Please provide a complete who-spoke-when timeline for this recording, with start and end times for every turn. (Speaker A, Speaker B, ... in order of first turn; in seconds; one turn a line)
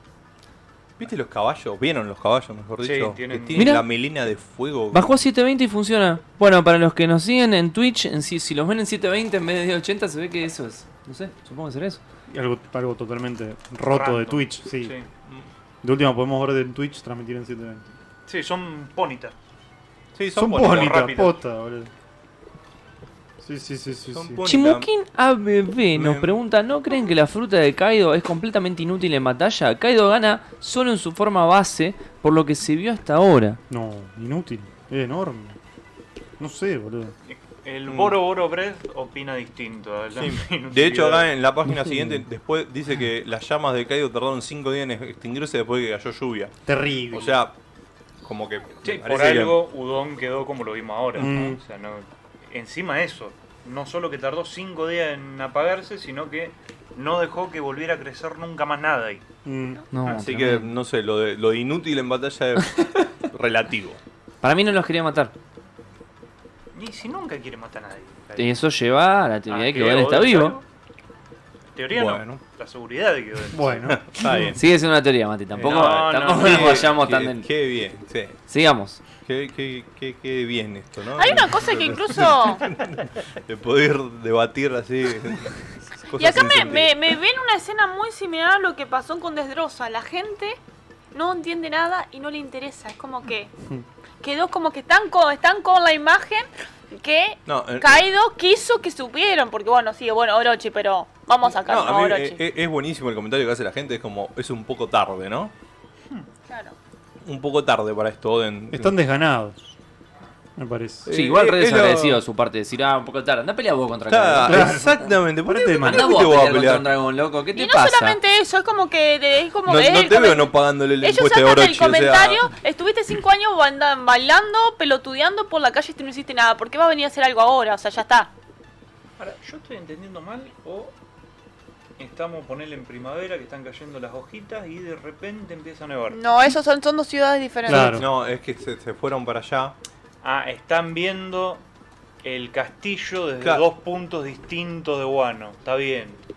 Speaker A: 1.0-5.2
Speaker B: 2.8-3.8
Speaker C: 3.5-3.9
Speaker C: 4.9-12.0
Speaker D: 12.3-14.9
Speaker B: 13.9-15.1
Speaker D: 15.8-17.9
Speaker B: 18.3-19.3
Speaker A: 20.1-21.3
Speaker D: 20.3-21.9
Speaker B: 20.7-21.2
Speaker D: 23.4-24.4
Speaker A: 24.1-24.9
Speaker C: 24.4-33.6
Speaker A: 25.9-26.4
Speaker D: 33.7-35.6
Speaker D: 36.4-37.1
Speaker B: 37.3-41.3
Speaker A: 37.9-38.2
Speaker A: 40.2-46.5
Speaker D: 46.7-47.4
Speaker A: 47.1-47.5
Speaker A: 48.2-49.6
Speaker B: 48.8-59.2
Speaker D: 51.2-51.6
Speaker D: 59.5-59.8
Speaker C: 59.9-60.7
Speaker A: 60.1-64.0
Speaker C: 64.4-65.3
Speaker B: 66.7-68.5
Speaker C: 68.4-70.6
Speaker B: 69.5-70.6
Speaker B: 71.8-73.8
Speaker A: 71.9-72.4
Speaker D: 73.5-74.5
Speaker A: 73.9-74.6
Speaker C: 74.5-77.5
Speaker A: 75.5-78.4
Speaker B: 75.6-76.9
Speaker C: 78.5-79.0
Speaker A: 79.2-86.9
Speaker E: 81.2-82.7
Speaker E: 86.2-90.6
Speaker E: 91.1-93.5
Speaker E: 94.2-102.4
Speaker A: 97.5-98.0
Speaker A: 101.5-105.5
Speaker E: 106.5-106.8
Speaker A: 107.3-109.0
Speaker D: 108.7-109.6
Speaker D: 110.6-111.1
Speaker A: 111.1-112.2
Speaker C: 111.1-114.8
Speaker A: 114.1-116.9
Speaker D: 114.5-116.2
Speaker C: 115.8-118.2
Speaker E: 117.5-128.3
Speaker A: 119.7-122.5
Speaker B: 129.2-130.9
Speaker B: 132.0-136.2
Speaker E: 136.1-138.1
Speaker D: 137.7-138.1
Speaker A: 137.7-139.8
Speaker B: 140.2-141.6
Speaker B: 142.2-146.2